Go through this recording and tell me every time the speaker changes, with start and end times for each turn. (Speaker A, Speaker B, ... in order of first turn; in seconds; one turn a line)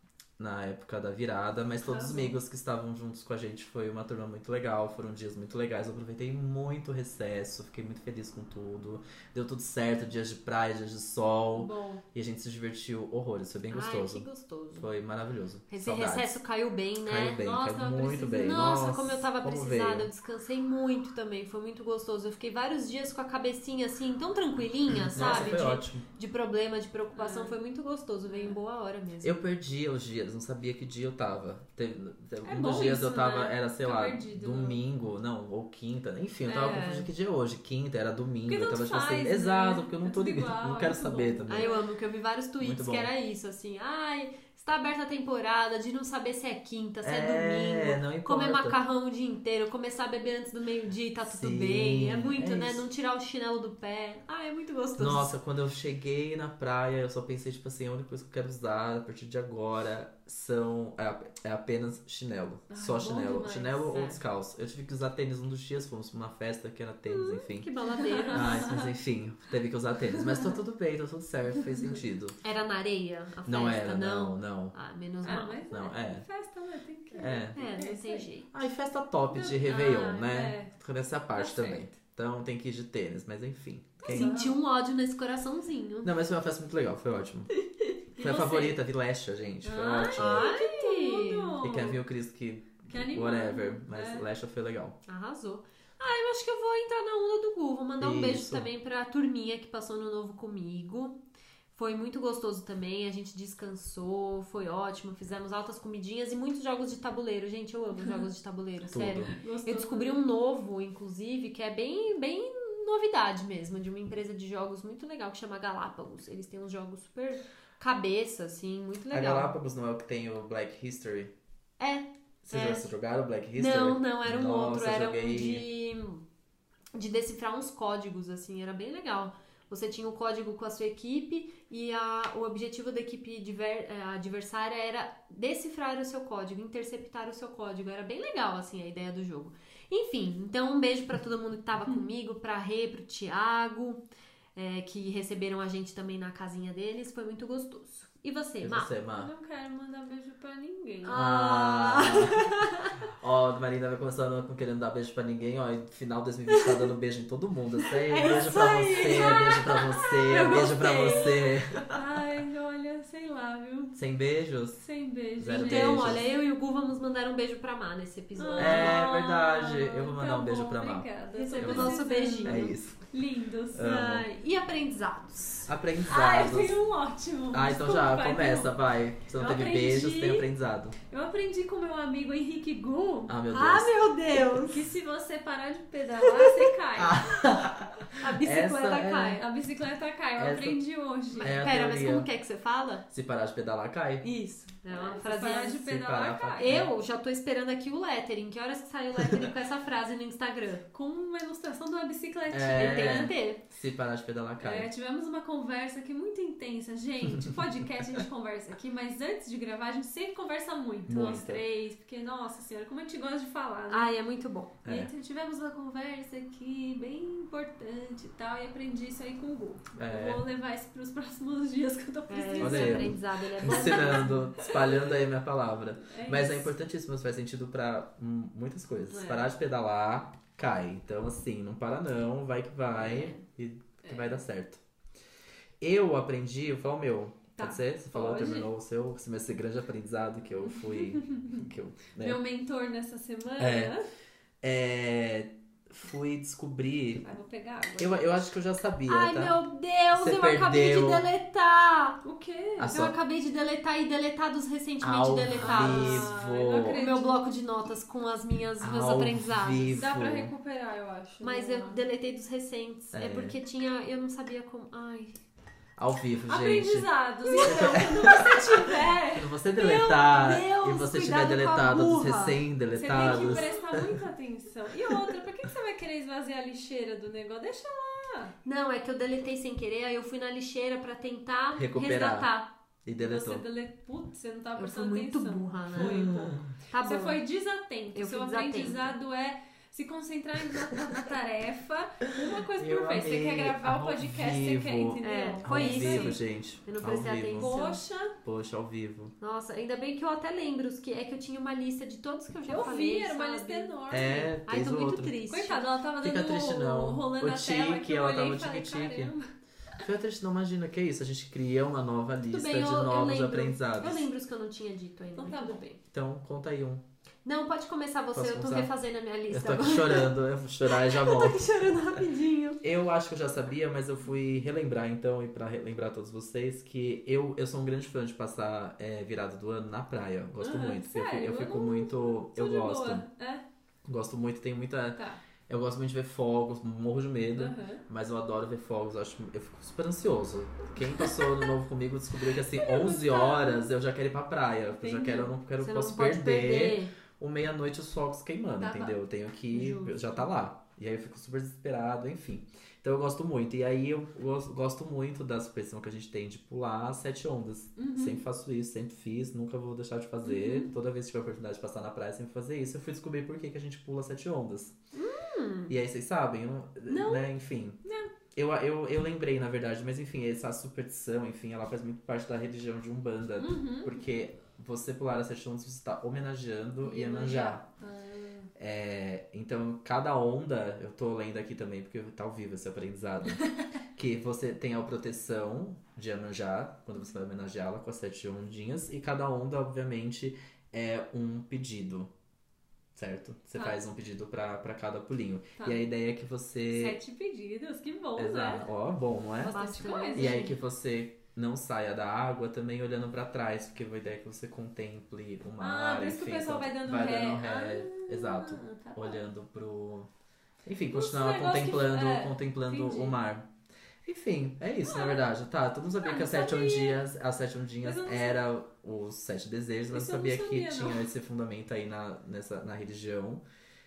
Speaker A: 0.4-16.4
Speaker B: 1.9-2.4
Speaker B: 11.5-12.0
Speaker C: 13.7-14.9
Speaker C: 15.7-29.3
Speaker A: 17.0-20.1
Speaker B: 17.4-18.7
Speaker A: 24.9-26.0
Speaker B: 25.2-25.6
Speaker B: 27.1-27.6
Speaker B: 28.2-28.6
Speaker A: 29.2-41.7
Speaker B: 32.4-34.8
Speaker B: 36.5-36.9
Speaker C: 36.5-37.1
Speaker B: 38.5-41.9
Speaker C: 41.5-55.3
Speaker A: 42.6-43.1
Speaker A: 47.0-48.8
Speaker A: 51.2-52.8
Speaker A: 55.0-67.7
Speaker B: 62.7-63.9
Speaker C: 63.9-64.2
Speaker C: 67.0-68.7
Speaker B: 68.0-68.9
Speaker A: 68.3-72.4
Speaker C: 72.4-75.7
Speaker A: 73.5-74.7
Speaker B: 75.2-78.3
Speaker A: 75.7-76.2
Speaker A: 77.2-77.6
Speaker C: 77.5-78.5
Speaker A: 78.5-84.3
Speaker B: 79.3-80.7
Speaker B: 81.3-81.9
Speaker C: 84.0-86.1
Speaker B: 84.0-84.6
Speaker A: 86.0-87.5
Speaker B: 88.2-88.8
Speaker A: 88.2-90.5
Speaker B: 89.6-92.0
Speaker C: 90.1-91.5
Speaker A: 91.6-95.0
Speaker B: 92.9-94.3
Speaker C: 95.1-101.2
Speaker A: 98.0-98.7
Speaker C: 101.7-119.5
Speaker B: 108.0-108.2
Speaker A: 108.9-109.3
Speaker B: 109.3-110.2
Speaker A: 119.1-121.3
Speaker C: 121.8-122.9
Speaker A: 122.4-125.7
Speaker C: 123.5-126.2
Speaker C: 126.9-144.0
Speaker C: 144.5-148.9
Speaker A: 148.6-149.3
Speaker B: 149.2-151.2
Speaker C: 151.0-152.9
Speaker A: 151.1-152.6
Speaker A: 153.1-162.0
Speaker C: 158.1-161.5
Speaker B: 158.4-159.5
Speaker B: 160.1-163.9
Speaker A: 163.9-164.8
Speaker B: 164.7-166.2
Speaker A: 165.4-166.3
Speaker C: 165.6-169.0
Speaker B: 168.4-174.0
Speaker A: 168.6-173.0
Speaker C: 171.3-172.7
Speaker A: 173.7-174.3
Speaker C: 173.8-175.7
Speaker A: 175.6-176.8
Speaker B: 176.1-178.7
Speaker A: 177.5-181.0
Speaker B: 179.3-180.5
Speaker B: 181.1-183.3
Speaker A: 183.3-184.0
Speaker C: 183.5-184.8
Speaker B: 184.4-187.4
Speaker C: 186.4-186.7
Speaker A: 186.9-189.4
Speaker C: 188.2-189.4
Speaker B: 189.2-191.5
Speaker A: 190.4-190.8
Speaker C: 191.4-193.0
Speaker A: 191.4-192.3
Speaker A: 193.1-194.2
Speaker C: 194.2-195.9
Speaker B: 194.9-196.7
Speaker A: 195.7-196.9
Speaker C: 196.6-200.8
Speaker B: 200.9-203.3
Speaker A: 202.5-204.9
Speaker C: 202.7-203.6
Speaker B: 204.6-214.1
Speaker A: 211.1-211.6
Speaker C: 213.9-214.8
Speaker A: 214.8-215.1
Speaker B: 214.8-225.1
Speaker A: 220.0-220.4
Speaker C: 222.3-224.4
Speaker A: 222.6-234.8
Speaker B: 226.0-226.7
Speaker B: 229.1-229.5
Speaker B: 234.0-234.4
Speaker A: 235.8-242.4
Speaker B: 237.6-238.7
Speaker B: 240.8-241.6
Speaker B: 242.2-244.0
Speaker A: 243.6-243.9
Speaker A: 244.6-247.3
Speaker B: 247.2-248.3
Speaker A: 248.0-249.6
Speaker C: 249.1-252.2
Speaker A: 250.1-251.2
Speaker B: 252.2-252.9
Speaker A: 252.8-253.2
Speaker C: 252.8-256.3
Speaker A: 255.0-257.0
Speaker B: 255.5-257.4
Speaker C: 256.9-260.0
Speaker A: 258.8-260.5
Speaker B: 259.9-262.0
Speaker C: 261.4-265.4
Speaker A: 263.1-263.6
Speaker A: 266.0-267.1
Speaker B: 266.5-270.4
Speaker C: 267.4-268.9
Speaker A: 267.6-268.7
Speaker A: 269.3-274.2
Speaker C: 269.9-273.8
Speaker B: 272.9-278.5
Speaker C: 278.6-282.7
Speaker A: 281.8-282.5
Speaker A: 283.0-283.6
Speaker B: 283.2-296.4
Speaker C: 284.8-286.3
Speaker A: 286.0-286.6
Speaker C: 286.9-287.4
Speaker C: 288.1-289.1
Speaker A: 292.8-297.8
Speaker C: 295.2-298.0
Speaker B: 297.5-298.3
Speaker A: 298.4-299.3
Speaker C: 299.4-303.9
Speaker B: 302.7-304.5
Speaker A: 304.1-305.4
Speaker C: 304.7-305.9
Speaker B: 305.5-309.5
Speaker A: 306.2-309.3
Speaker A: 310.0-314.3
Speaker C: 312.5-315.9
Speaker B: 315.4-315.9
Speaker A: 316.1-317.0
Speaker C: 317.4-320.3
Speaker A: 318.3-318.9
Speaker A: 319.5-321.9
Speaker C: 320.8-322.8
Speaker A: 322.8-333.2
Speaker B: 330.6-333.6
Speaker A: 334.0-364.9
Speaker B: 337.5-338.0
Speaker B: 341.3-341.6
Speaker B: 342.8-343.9
Speaker B: 344.9-345.5
Speaker C: 345.8-347.1
Speaker B: 348.8-349.1
Speaker C: 349.7-350.4
Speaker B: 358.0-358.4
Speaker B: 360.4-360.9
Speaker C: 365.1-365.9
Speaker A: 365.9-368.0
Speaker B: 367.1-367.4
Speaker B: 368.0-368.3
Speaker A: 368.5-377.8
Speaker B: 373.6-374.2
Speaker B: 377.0-378.7
Speaker A: 378.8-392.3
Speaker B: 383.6-383.8
Speaker A: 393.1-397.2
Speaker B: 393.7-394.0
Speaker B: 395.8-396.0
Speaker B: 396.9-398.9
Speaker A: 398.4-410.3
Speaker C: 399.6-400.7
Speaker B: 399.6-400.6
Speaker B: 405.8-409.4
Speaker A: 410.8-413.7
Speaker B: 411.1-413.4
Speaker A: 414.2-423.6
Speaker B: 415.1-415.5
Speaker B: 416.2-417.2
Speaker B: 418.0-418.6
Speaker B: 420.1-421.2